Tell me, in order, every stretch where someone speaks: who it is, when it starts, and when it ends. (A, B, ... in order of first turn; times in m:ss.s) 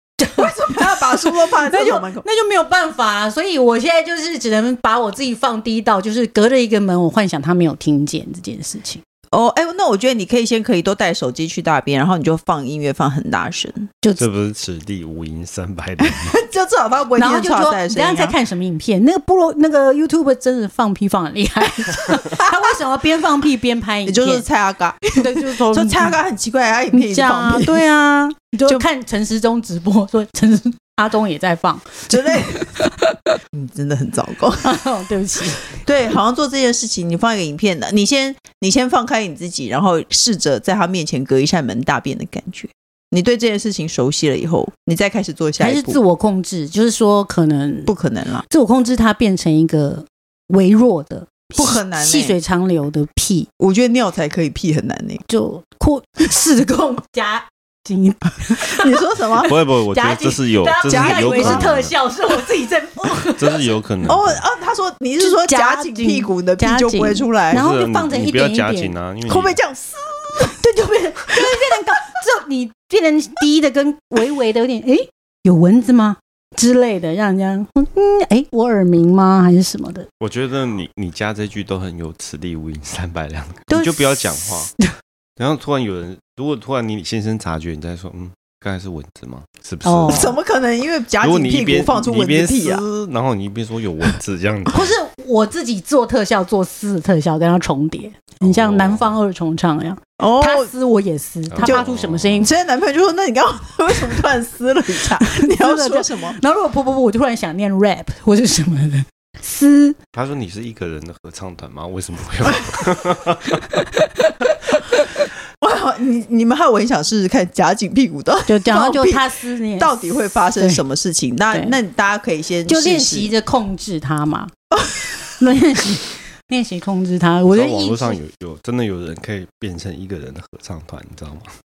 0:00.2-0:09.0 A
0:00.3-0:02.2 B
0:09.3-0:13.9 B
0:14.2-0:16.3 C
0:16.0-0:18.4 B
0:17.2-0:24.4 A
0:24.0-0:27.8 B
0:25.2-0:26.2 A
0:26.9-0:33.2 A
0:32.1-0:32.7 B
0:33.5-0:34.7 B
0:34.6-0:35.8 A
0:35.6-0:46.0 B
0:45.6-0:47.9 A
0:47.9-0:48.4 B
0:48.5-0:53.5 A
0:51.6-0:52.4 B
0:53.6-0:55.2 B
0:55.3-1:03.6 A
0:58.6-0:59.5 B
0:59.5-1:01.9 C
1:00.8-1:01.7 B
1:03.4-1:04.4 C
1:04.1-1:07.6 B
1:05.2-1:08.9 A
1:07.5-1:09.6 C
1:09.3-1:10.6 B
1:10.4-1:20.1 A
1:20.2-1:24.7 C
1:23.7-1:24.8 A
1:25.4-1:30.3 C
1:29.8-1:30.4 A
1:30.0-1:32.8 B
1:31.2-1:34.9 C
1:34.7-1:42.5 A
1:38.4-1:39.2 C
1:40.2-1:40.7 B
1:41.5-1:42.5 C
1:42.4-1:46.4 B
1:45.2-1:50.0 A
1:50.1-1:53.6 C
1:53.8-1:54.5 A
1:55.6-2:03.3 B
1:58.5-2:00.8 A
2:01.5-2:01.8 A
2:02.6-2:04.5 A
2:05.3-2:08.2 A
2:07.5-2:11.5 C